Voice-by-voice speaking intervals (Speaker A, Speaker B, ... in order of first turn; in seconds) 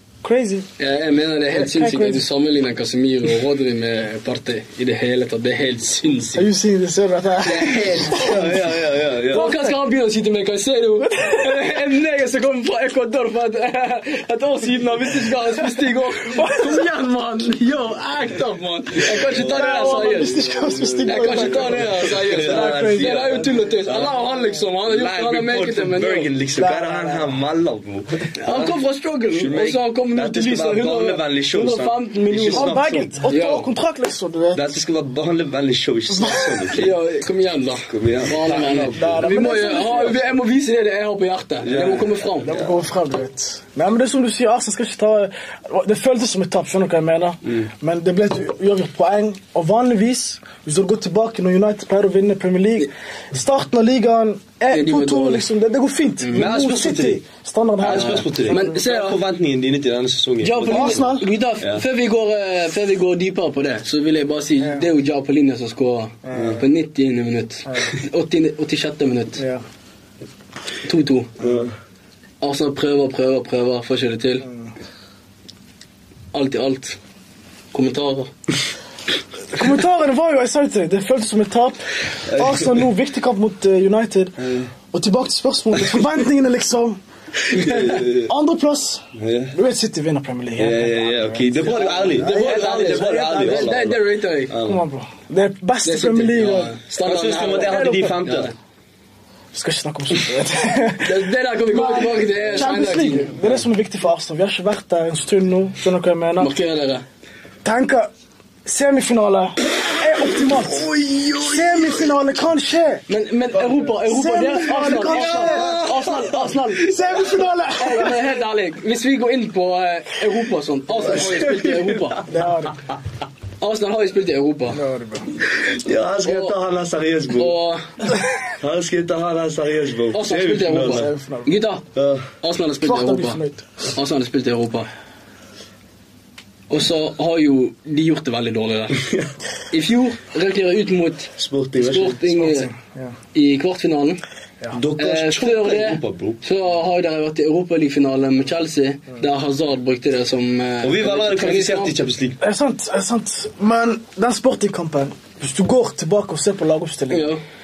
Speaker A: 0.2-0.7, 1.5-2.2, 6.3-9.8, 11.2-11.5, 16.2-16.8, 19.3-23.7, 26.6-27.4, 32.5-34.7, 36.1-36.8, 38.9-40.2, 42.4-58.8, 60.6-61.3, 66.2-66.6, 74.5-74.7, 79.5-84.3, 84.9-87.0, 87.5-93.7, 94.5-96.8, 97.5-98.2, 99.5-106.5, 107.6-108.1, 108.6-113.0, 113.7-115.8, 116.7-118.2, 122.3-122.8, 124.7-125.3, 130.7-131.6, 132.8-133.6, 142.3-143.1, 152.4-157.3
Speaker B: 0.8-6.5, 7.4-8.4, 9.3-20.4, 21.0-26.3, 28.4-33.7, 36.7-42.5, 54.7-55.4, 56.2-56.5, 57.9-59.2, 60.4-69.4, 70.8-71.3, 72.4-74.5, 76.3-77.0, 77.7-78.3, 87.5-87.8, 91.6-94.5, 95.8-98.5, 101.0-103.3, 106.4-107.0, 113.1-116.9, 117.8-122.2, 123.6-124.8, 126.2-126.5, 127.3-127.9, 130.1-131.8, 132.4-133.4, 133.9-134.9, 136.7-139.0, 139.7-142.7, 143.3-144.2, 145.0-151.9, 157.1-157.4
Speaker C: 7.5-9.5, 19.1-24.2, 24.8-28.8, 29.3-33.1, 34.5-36.9, 37.9-39.3, 41.6-42.7, 56.3-57.2, 57.8-61.8, 66.3-66.6, 71.4-71.7, 82.3-82.7, 84.4-84.7, 87.5-88.3, 89.1-89.5, 90.6-94.8, 96.9-98.5, 110.4-112.1, 114.9-116.5, 120.9-122.3, 125.5-127.5, 128.6-131.1, 131.9-132.3, 139.0-139.3, 141.4-142.2, 144.7-146.4, 150.8-152.4